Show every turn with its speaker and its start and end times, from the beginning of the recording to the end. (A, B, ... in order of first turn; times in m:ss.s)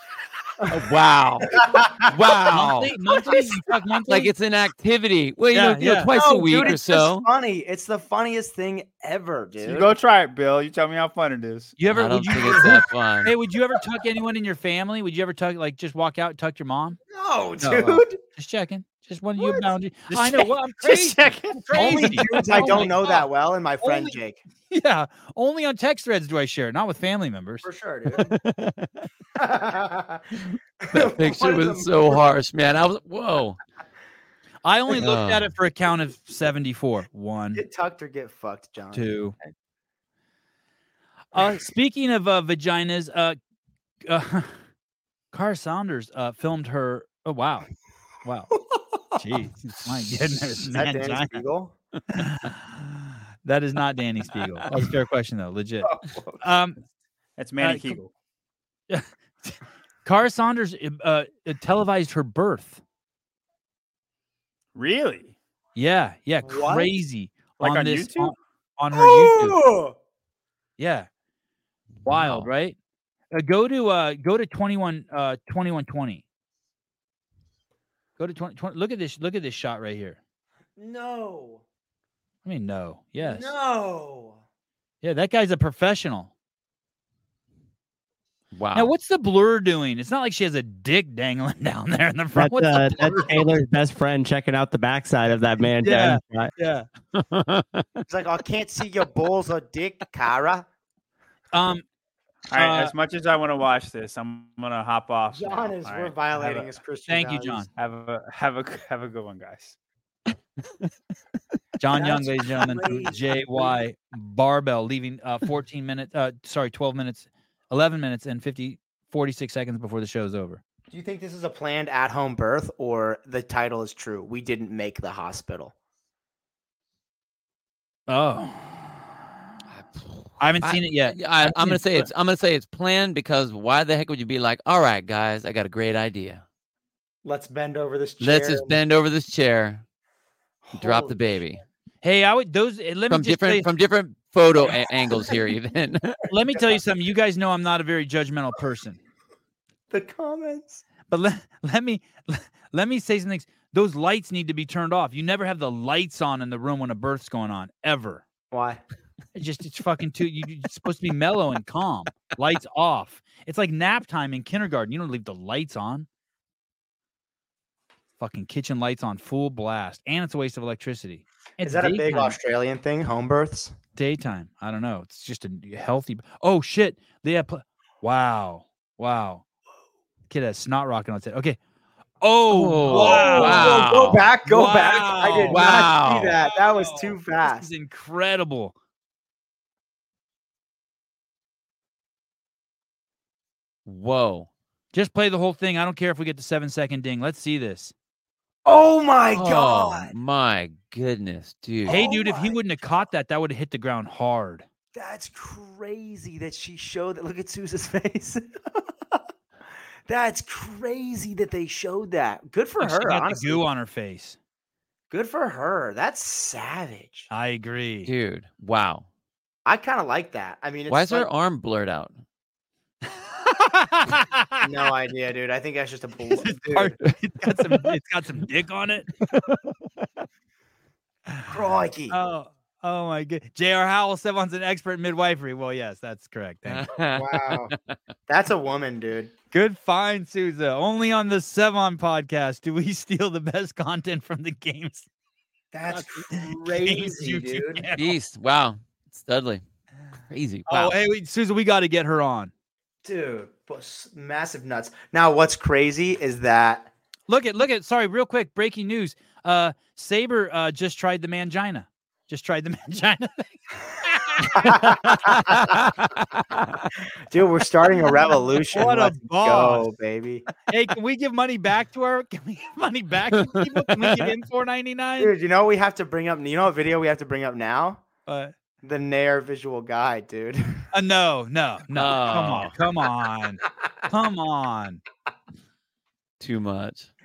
0:00.6-0:00.9 A
0:00.7-0:01.5 B
0:01.6-0:02.1 A
0:02.1-0:02.9 B
0:02.5-0:04.3 C
0:04.1-0:07.2 B
0:05.5-0:06.1 C
0:06.1-0:09.9 A
0:09.6-0:11.8 D
0:11.8-0:17.0 C
0:11.9-0:13.3 B
0:17.1-0:18.2 A
0:17.6-0:23.2 C
0:20.1-0:22.1 D
0:21.7-0:24.4 A
0:23.8-0:24.2 C
0:24.7-0:27.7 C
0:27.6-0:28.4 A
0:28.1-0:28.9 B
0:29.4-0:30.2 A
0:30.9-0:32.2 A
0:30.9-0:33.6 B
0:34.6-0:37.6 C
0:35.0-0:35.5 B
0:37.5-0:39.1 A
0:38.9-0:39.3 C
0:41.3-0:43.4 C
0:44.0-0:44.6 C
0:45.3-0:47.7 C
0:48.2-0:48.5 C
0:48.7-0:49.0 A
0:49.2-0:51.4 C
0:50.6-0:51.7 A
0:52.1-0:56.8 C
0:55.8-0:56.4 A
0:57.4-0:58.1 D
0:57.6-0:58.0 C
0:58.9-1:02.8 C
1:04.7-1:05.3 D
1:05.8-1:09.6 C
1:06.4-1:06.9 A
1:07.6-1:08.3 D
1:08.9-1:10.0 A
1:10.8-1:11.1 C
1:12.0-1:12.5 B
1:12.0-1:12.8 C
1:13.3-1:16.2 C
1:18.2-1:20.2 C
1:20.8-1:21.6 A
1:22.4-1:23.5 C
1:23.2-1:24.4 A
1:25.0-1:26.3 C
1:28.5-1:28.9 B
1:28.7-1:33.7 C
1:32.3-1:36.5 E
1:35.8-1:36.9 C
1:37.1-1:37.8 B
1:38.1-1:40.6 A
1:41.5-1:41.8 C
1:42.5-1:46.7 D
1:42.5-1:42.9 C
1:45.3-1:47.7 A
1:47.1-1:47.7 C
1:47.8-1:49.7 D
1:51.8-2:00.6 C
1:51.9-1:53.8 A
2:00.9-2:05.7 A
2:08.1-2:08.9 C
2:09.7-2:16.4 B
2:10.4-2:12.1 C
2:17.2-2:18.8 A
2:18.2-2:19.8 B
2:20.6-2:21.6 A
2:20.7-2:21.6 B
2:22.0-2:23.7 C
2:23.1-2:26.2 B
2:26.3-2:29.0 C
2:29.9-2:30.8 A
2:31.1-2:38.2 C
2:38.5-2:38.8 A
2:39.3-2:46.1 C
2:48.2-2:52.4 C
2:51.6-2:53.7 A
2:54.0-2:59.4 C
3:00.3-3:01.6 C
3:02.2-3:03.8 C
3:02.5-3:04.2 B
3:02.9-3:07.7 A
3:04.4-3:05.8 C
3:05.5-3:06.4 B
3:06.4-3:08.7 C
3:13.8-3:14.5 B
3:14.9-3:17.9 C
3:18.6-3:20.1 A
3:19.3-3:22.0 B
3:21.8-3:22.6 A
3:21.9-3:24.6 C
3:24.9-3:29.2 A
3:30.1-3:33.7 A
3:32.8-3:34.4 C
3:35.1-3:37.3 A
3:37.3-3:38.1 C
3:38.0-3:39.1 B
3:39.6-3:41.3 A
3:40.9-3:42.1 B
3:43.1-3:44.7 C
3:44.6-3:47.0 A
3:46.3-3:49.1 C
3:51.4-3:52.2 A
3:52.1-3:56.9 C
3:56.7-3:57.7 B
3:57.1-3:57.7 A
3:58.3-3:59.3 A
3:59.5-4:05.1 C
4:05.7-4:07.8 A
4:06.3-4:08.2 C
4:08.0-4:09.6 B
4:10.3-4:10.9 B
4:10.7-4:12.5 C
4:13.0-4:16.9 A
4:17.3-4:25.8 C
4:24.5-4:25.6 A
4:25.1-4:26.8 B
4:27.3-4:30.4 A
4:28.7-4:29.9 C
4:30.7-4:35.3 C
4:33.4-4:34.3 B
4:35.2-4:38.0 A
4:38.2-4:38.5 C
4:38.8-4:40.8 A
4:40.9-4:45.0 C
4:42.0-4:42.7 B
4:46.4-4:47.1 B